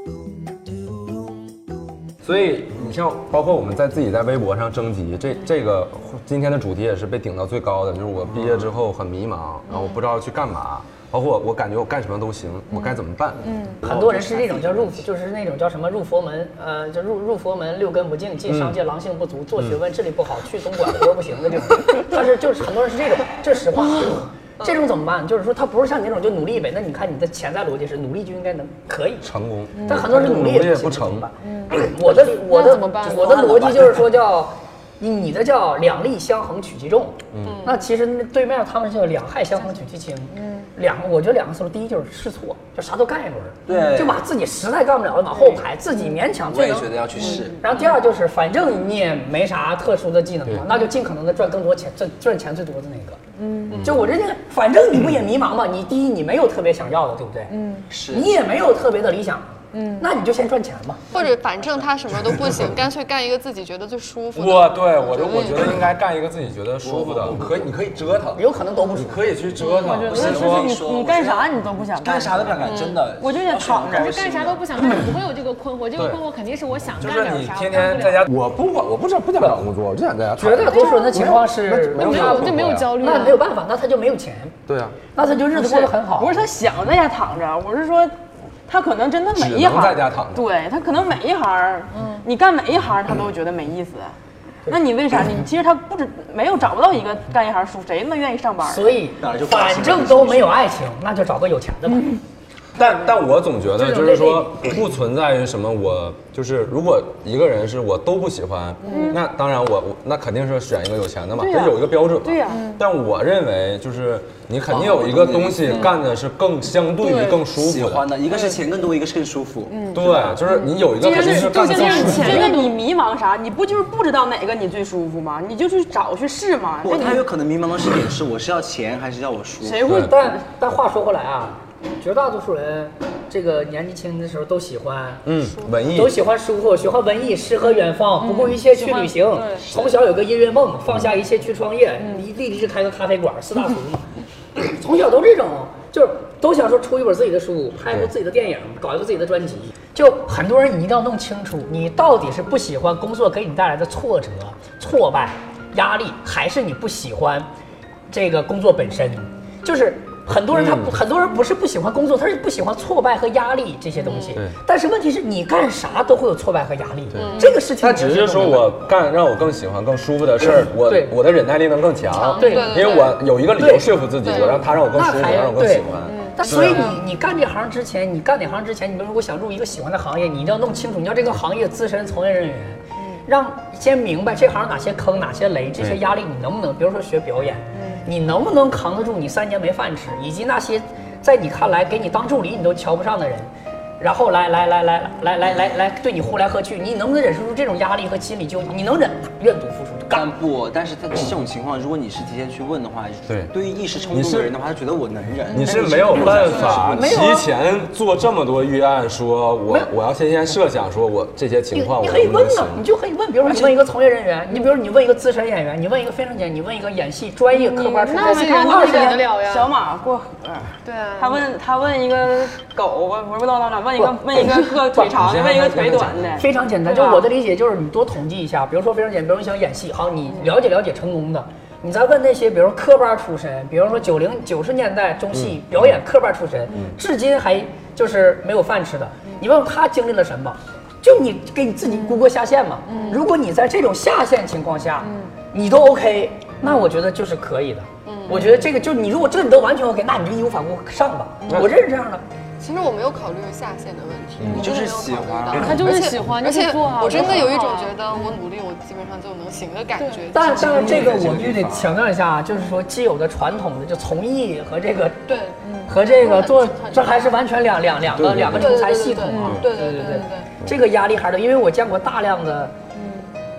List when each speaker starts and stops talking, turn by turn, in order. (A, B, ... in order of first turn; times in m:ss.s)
0:02.2-0:13.6 A
0:09.7-0:10.0 B
0:12.7-0:13.8 B
0:13.8-0:29.3 C
0:13.8-0:14.9 D
0:18.5-0:18.8 A
0:29.2-0:31.3 A
0:29.7-0:30.0 B
0:29.8-0:53.2 C
0:31.4-0:33.9 B
0:33.4-0:33.8 D
0:37.3-0:37.6 A
0:37.4-0:37.8 E
0:40.3-0:40.7 B
0:43.7-0:44.3 D
0:46.5-0:47.6 D
0:47.2-0:47.9 B
0:53.4-0:53.9 B
0:53.7-0:54.0 A
0:53.8-0:57.5 C
0:57.5-0:57.9 B
0:57.9-0:58.3 D
0:58.1-1:01.0 C
0:59.7-1:00.1 B
1:01.1-1:05.9 E
1:04.3-1:08.4 A
1:06.8-1:07.6 D
1:08.4-1:09.4 C
1:08.9-1:10.7 A
1:09.6-1:10.1 B
1:09.6-1:14.1 F
1:10.1-1:11.5 D
1:12.0-1:14.7 D
1:12.6-1:13.0 E
1:13.9-1:18.3 B
1:16.0-1:16.2 A
1:17.0-1:23.0 A
1:20.4-1:24.6 C
1:22.0-1:23.4 B
1:24.7-1:25.0 A
1:25.2-1:26.4 C
1:25.5-1:28.2 F
1:28.7-1:39.0 F
1:29.3-1:30.5 A
1:31.9-1:32.2 B
1:38.7-1:42.2 C
1:39.2-1:40.6 D
1:42.8-1:58.2 A
1:43.8-1:44.6 C
1:48.8-1:49.2 B
1:48.9-1:49.2 F
1:51.4-1:52.8 F
1:52.5-1:52.8 B
1:54.7-1:55.9 D
1:57.0-1:57.4 B
1:57.5-2:00.0 D
1:59.7-2:02.8 B
1:59.9-2:02.5 A
2:00.9-2:07.3 F
2:06.8-2:09.9 D
2:09.6-2:10.4 F
2:09.8-2:10.2 A
2:09.9-2:15.2 C
2:15.2-2:16.2 A
2:15.9-2:37.5 C
2:18.2-2:19.7 B
2:38.1-2:48.8 C
2:40.5-2:41.0 A
2:44.1-2:44.4 E
2:47.1-2:56.9 A
2:47.2-2:47.6 E
2:50.9-2:51.2 C
2:52.1-2:53.2 E
2:52.4-2:53.9 C
2:54.2-2:54.6 E
2:54.9-3:20.3 C
2:56.1-2:56.9 B
3:05.8-3:06.0 A
3:07.7-3:08.0 B
3:20.1-3:27.0 D
3:23.3-3:23.5 A
3:24.1-3:24.6 A
3:25.5-3:32.8 A
3:25.6-3:27.5 C
3:31.7-3:39.2 C
3:37.5-3:46.5 F
3:38.0-3:39.7 B
3:40.8-3:41.5 B
3:45.1-3:46.5 A
3:46.4-4:12.2 C
3:46.8-3:47.2 B
3:55.3-3:55.9 A
4:02.9-4:03.2 B
4:05.0-4:05.3 B
4:08.0-4:08.4 E
4:12.6-4:21.1 E
4:14.4-4:15.8 D
4:15.5-4:18.4 B
4:20.0-4:20.4 B
4:20.3-4:25.2 C
4:20.5-4:21.9 D
4:25.3-4:27.3 E
4:25.9-4:32.7 C
4:28.1-4:28.9 A
4:28.5-4:30.5 E
4:29.3-4:30.2 B